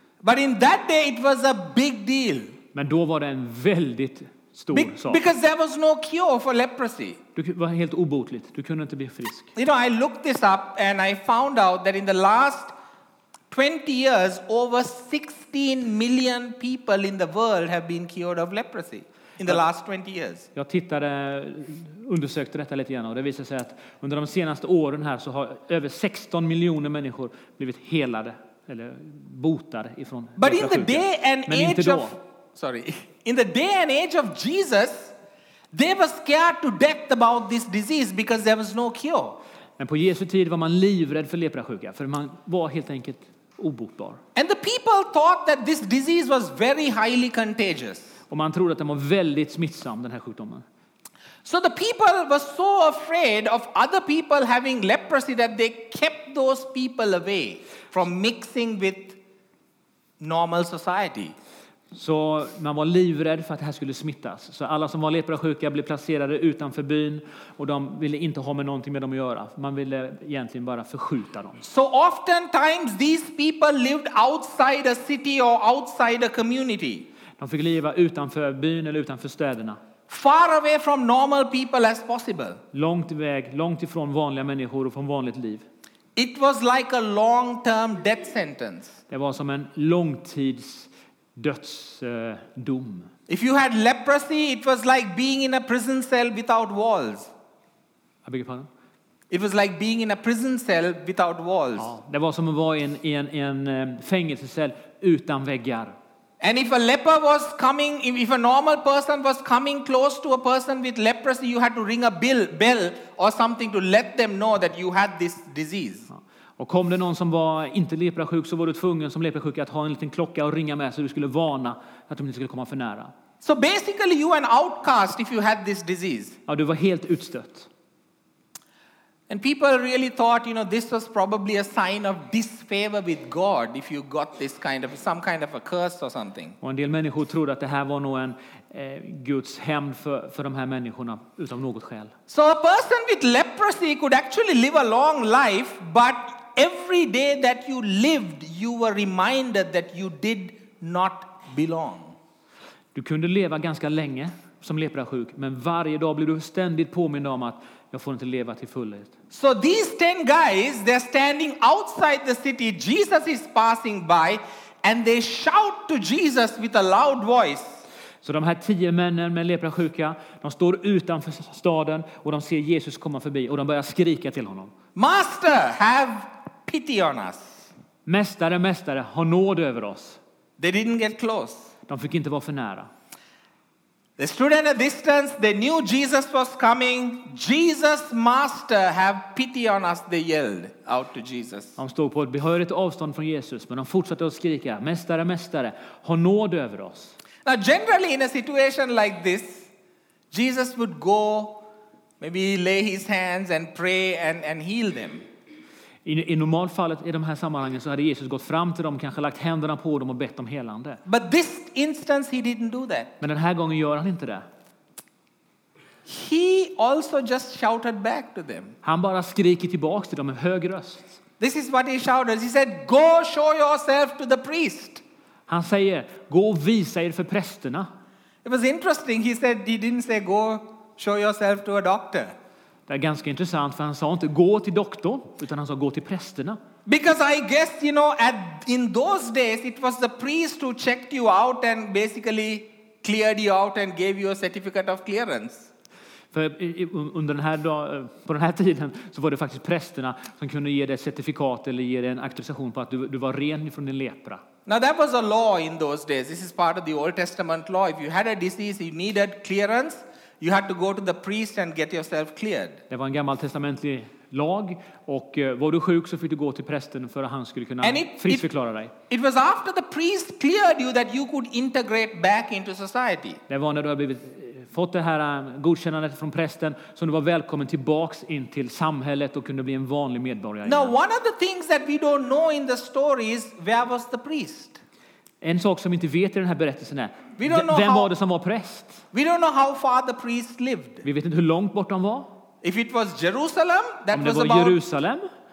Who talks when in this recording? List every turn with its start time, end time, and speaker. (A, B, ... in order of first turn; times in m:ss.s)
0:00.2-0:02.6 A
0:02.7-0:05.2 B
0:04.7-0:07.2 A
0:07.4-0:09.5 B
0:09.5-0:12.7 A
0:13.5-0:20.5 A
0:20.5-0:32.1 B
0:30.4-0:35.1 A
0:35.7-0:39.4 A
0:39.8-0:44.2 B
0:44.3-0:48.2 A
0:48.3-0:50.6 B
0:51.4-0:59.2 A
1:00.2-1:01.3 A
1:01.9-1:11.6 B
1:11.6-1:17.1 A
1:17.4-1:19.8 B
1:20.1-1:22.6 A
1:22.7-1:25.6 B
1:26.2-1:29.0 A
1:29.1-1:33.1 B
1:33.3-1:37.3 A
1:38.2-1:38.7 B
1:39.3-1:41.9 A
1:41.8-1:46.0 B
1:46.4-1:56.1 A
1:56.1-2:03.1 B
2:03.4-2:06.4 A
2:06.5-2:07.7 B
2:09.3-2:16.6 A
2:16.6-2:22.1 B
2:22.3-2:32.1 A
2:32.9-2:39.1 B
2:39.3-2:47.8 A
2:48.2-2:54.7 B
2:54.9-2:57.7 A
2:58.0-3:00.2 B
3:00.6-3:01.7 A
3:01.9-3:02.9 B
3:04.2-3:11.8 A
3:11.8-3:17.1 B
3:17.4-3:19.7 A
3:20.3-3:21.6 A
3:22.2-3:25.2 A
3:26.0-3:31.0 B
3:31.0-3:33.1 A
3:33.2-3:34.4 B
3:36.0-3:38.8 A
3:38.8-3:41.2 B
3:41.4-3:45.0 A
3:45.5-3:47.9 B
3:48.4-3:52.3 A
3:52.9-3:56.6 B
3:56.8-4:05.7 A
4:06.3-4:14.4 B
4:14.6-4:22.8 A
4:22.9-4:28.9 B
4:27.8-4:28.5 A
4:29.1-4:33.4 A
4:33.5-4:41.0 B
4:40.6-4:44.8 A
4:45.4-4:49.0 B
4:47.4-4:48.1 A
4:49.1-4:51.0 A
4:51.0-4:52.3 B
4:52.6-4:54.8 A
4:54.1-4:55.3 B